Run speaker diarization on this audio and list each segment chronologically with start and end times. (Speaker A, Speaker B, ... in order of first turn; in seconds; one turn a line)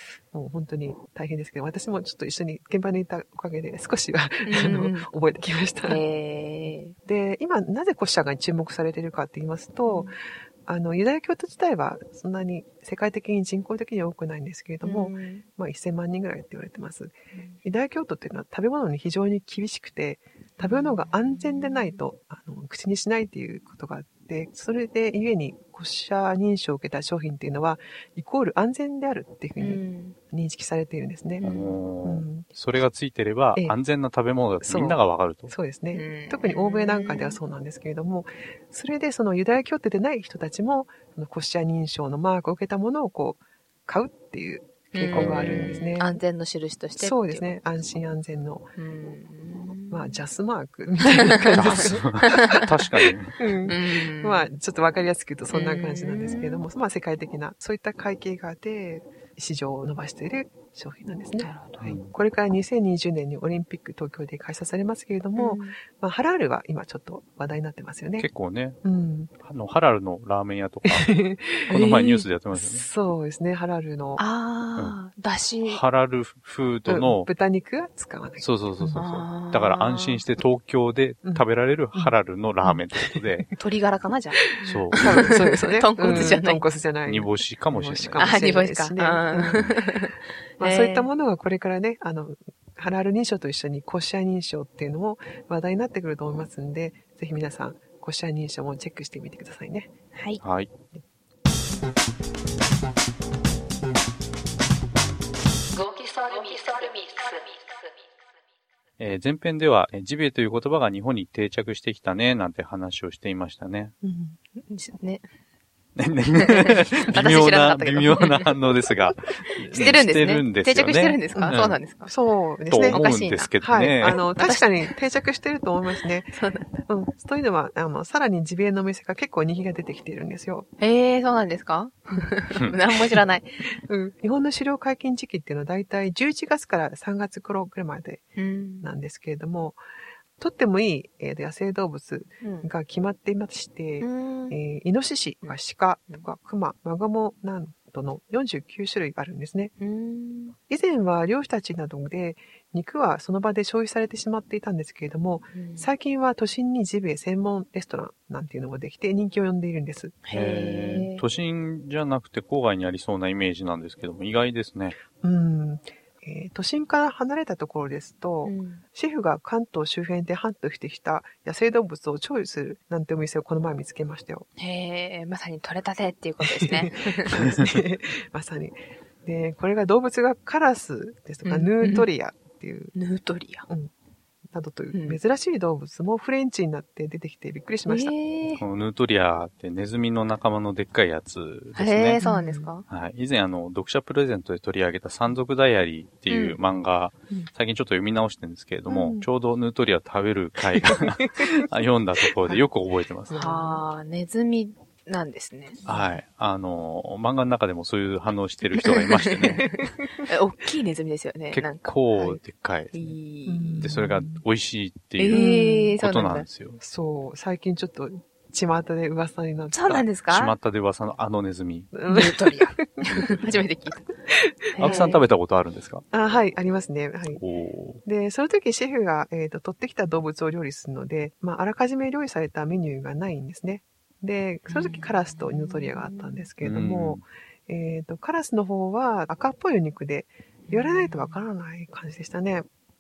Speaker A: 0.3-6.0
Speaker B: 4.4-5.1
Speaker B: 5.9-7.0
Speaker A: 6.7-31.5
Speaker B: 9.8-10.2
Speaker B: 14.8-15.4
Speaker B: 20.6-22.0
Speaker B: 29.6-30.2
Speaker B: 31.4-31.8
Speaker C: 31.4-35.5
Speaker A: 32.0-32.5
Speaker A: 34.6-46.2
Speaker B: 35.9-37.4
Speaker B: 44.9-47.6
Speaker C: 45.1-45.8
Speaker A: 47.0-48.7
Speaker B: 48.8-50.2
Speaker A: 49.9-52.7
Speaker B: 51.4-52.7
Speaker C: 51.5-53.5
Speaker A: 53.3-68.3
Speaker B: 53.7-54.5
Speaker B: 55.5-56.6
Speaker B: 61.4-62.0
Speaker C: 61.8-62.1
Speaker B: 65.4-65.8
Speaker C: 68.2-68.8
Speaker A: 68.8-69.3
Speaker C: 69.4-72.8
Speaker A: 70.8-74.2
Speaker B: 74.2-75.8
Speaker C: 75.6-77.3
Speaker A: 76.9-79.0
Speaker C: 78.4-83.5
Speaker B: 79.0-80.2
Speaker A: 81.2-83.5
Speaker B: 83.6-86.6
Speaker C: 84.6-85.1
Speaker A: 85.0-89.9
Speaker C: 86.1-86.4
Speaker C: 87.1-88.4
Speaker B: 88.2-91.1
Speaker A: 90.6-99.9
Speaker B: 100.2-100.4
Speaker C: 100.4-100.7
Speaker B: 105.8-107.4
Speaker C: 109.0-113.9
Speaker A: 114.0-114.4
Speaker B: 114.6-115.2
Speaker C: 116.0-121.8
Speaker B: 116.3-118.6
Speaker B: 119.7-122.1
Speaker A: 121.3-123.0
Speaker C: 122.7-124.2
Speaker B: 122.9-123.5
Speaker A: 123.6-126.3
Speaker B: 124.3-125.0
Speaker B: 126.0-126.7
Speaker A: 126.9-130.7
Speaker B: 130.8-133.6
Speaker A: 133.9-138.3
Speaker B: 138.4-138.9
Speaker A: 138.8-139.8
Speaker A: 140.4-149.7
Speaker B: 142.4-142.7
Speaker B: 144.0-144.6
Speaker B: 149.8-150.6
Speaker A: 150.7-160.2
Speaker B: 155.5-155.9
Speaker B: 160.2-161.2
Speaker C: 160.3-165.0
Speaker A: 165.2-174.5
Speaker B: 168.4-168.8
Speaker B: 174.6-177.5
Speaker A: 176.4-182.9
Speaker C: 177.3-177.8
Speaker B: 181.4-182.1
Speaker B: 182.9-183.7
Speaker A: 184.5-188.2
Speaker B: 184.9-185.2
Speaker B: 187.9-188.6
Speaker C: 188.5-192.2
Speaker B: 191.8-192.8
Speaker A: 192.2-192.7
Speaker C: 192.9-203.3
Speaker B: 196.3-196.6
Speaker A: 198.9-199.3
Speaker A: 200.6-201.7
Speaker A: 203.3-203.8
Speaker B: 203.3-205.8
Speaker A: 205.8-206.1
Speaker C: 205.9-209.6
Speaker B: 208.8-213.9
Speaker A: 209.6-210.3
Speaker C: 211.5-213.1
Speaker A: 213.5-214.4
Speaker C: 213.8-215.4
Speaker B: 215.2-216.5
Speaker A: 215.3-216.0
Speaker C: 216.0-216.8
Speaker A: 216.8-220.0
Speaker B: 219.7-220.5
Speaker C: 219.9-221.9
Speaker A: 221.9-223.4
Speaker B: 222.1-224.1
Speaker C: 223.1-223.6
Speaker A: 224.3-225.2
Speaker B: 224.8-225.2
Speaker C: 224.8-226.1
Speaker A: 226.1-227.4
Speaker C: 227.4-228.0
Speaker A: 228.1-242.7
Speaker B: 234.7-236.5
Speaker C: 236.6-237.2
Speaker B: 240.7-241.4